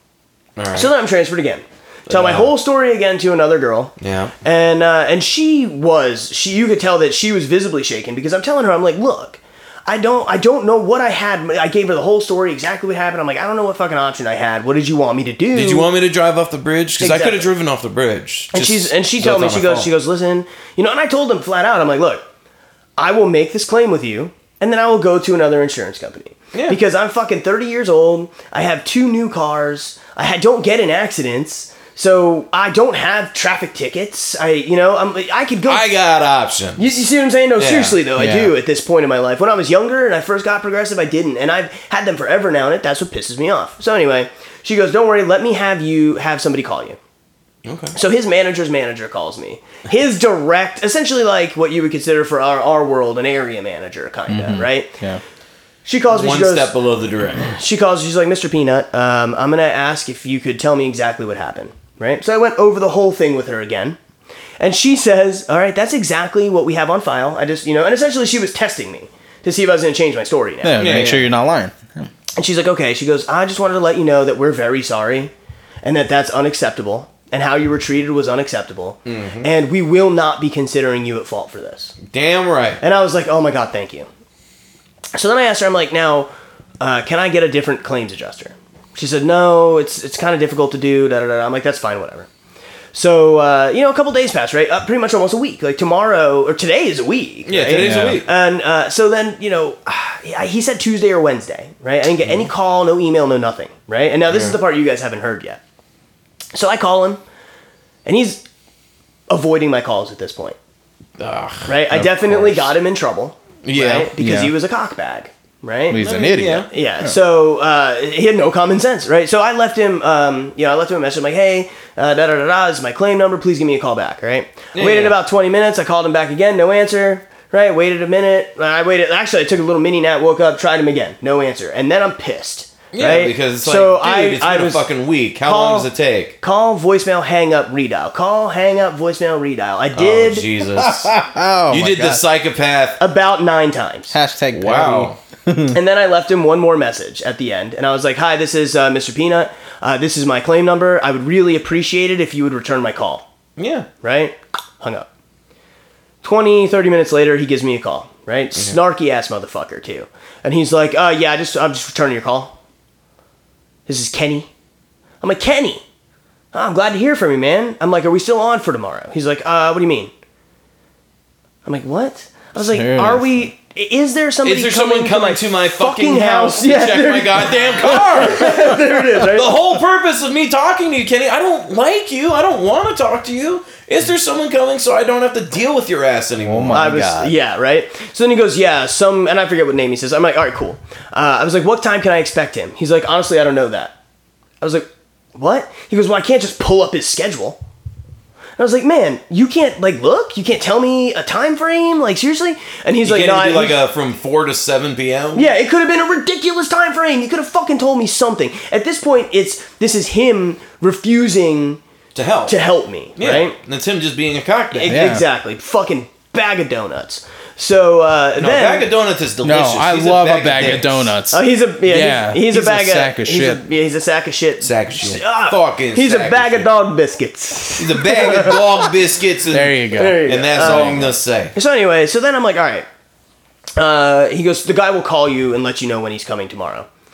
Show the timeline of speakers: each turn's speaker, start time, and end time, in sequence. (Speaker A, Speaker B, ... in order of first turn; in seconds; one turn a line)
Speaker A: 0.6-0.9
Speaker B: 0.7-15.9
Speaker A: 2.1-2.5
Speaker A: 4.0-4.3
Speaker A: 15.5-19.9
Speaker B: 17.0-17.5
Speaker B: 18.5-22.2
Speaker B: 23.0-35.8
Speaker A: 35.7-37.0
Speaker B: 36.8-47.0
Speaker A: 37.6-38.0
Speaker C: 38.2-38.6
Speaker A: 47.6-48.0
Speaker B: 48.0-54.9
Speaker C: 54.3-55.2
Speaker B: 55.9-56.8
Speaker A: 56.1-57.5
Speaker B: 57.4-64.0
Speaker B: 64.6-71.1
Speaker C: 70.6-72.1
Speaker A: 70.8-71.3
Speaker B: 72.4-75.3
Speaker B: 75.8-82.0
Speaker A: 79.1-79.5
Speaker A: 82.1-82.8
Speaker B: 82.8-84.1
Speaker B: 85.1-92.3
Speaker B: 92.9-105.6
Speaker A: 97.5-98.3
Speaker C: 97.8-98.2
Speaker A: 104.3-104.6
Speaker B: 106.5-107.2
Speaker B: 108.0-108.5
Speaker B: 109.3-110.6
Speaker A: 111.2-111.8
Speaker B: 111.7-116.0
Speaker C: 111.9-112.7
Speaker A: 113.6-114.1
Speaker C: 114.2-114.5
Speaker C: 115.9-117.1
Speaker A: 116.0-116.7
Speaker B: 116.7-134.9
Speaker A: 124.7-125.2
Speaker A: 132.9-136.4
Speaker B: 135.4-135.9
Speaker B: 136.4-140.5
Speaker A: 139.9-141.2
Speaker C: 140.8-142.2
Speaker A: 141.7-143.0
Speaker B: 143.0-144.1
Speaker C: 144.1-145.8
Speaker A: 144.5-145.2
Speaker B: 145.7-153.3
Speaker A: 153.6-153.9
Speaker B: 154.0-155.1
Speaker B: 156.2-162.6
Speaker B: 163.9-164.5
Speaker B: 165.2-165.8
Speaker B: 166.5-170.1
Speaker B: 171.7-179.6
Speaker C: 172.6-173.5
Speaker A: 174.4-186.9
Speaker C: 186.4-187.3
Speaker B: 186.7-194.0
Speaker B: 194.6-197.6
Speaker B: 198.6-203.8
Speaker A: 203.0-205.5
Speaker B: 205.3-211.8
Speaker A: 212.2-212.6
Speaker B: 212.5-213.6
Speaker A: 213.2-215.0
Speaker B: 214.7-218.9
Speaker C: 214.9-215.2
Speaker A: 218.4-221.2
Speaker C: 219.4-223.6
Speaker B: 221.3-228.9
Speaker A: 224.6-226.7
Speaker A: 227.8-231.6
Speaker C: 229.5-231.1
Speaker B: 229.9-232.9
Speaker B: 233.8-236.9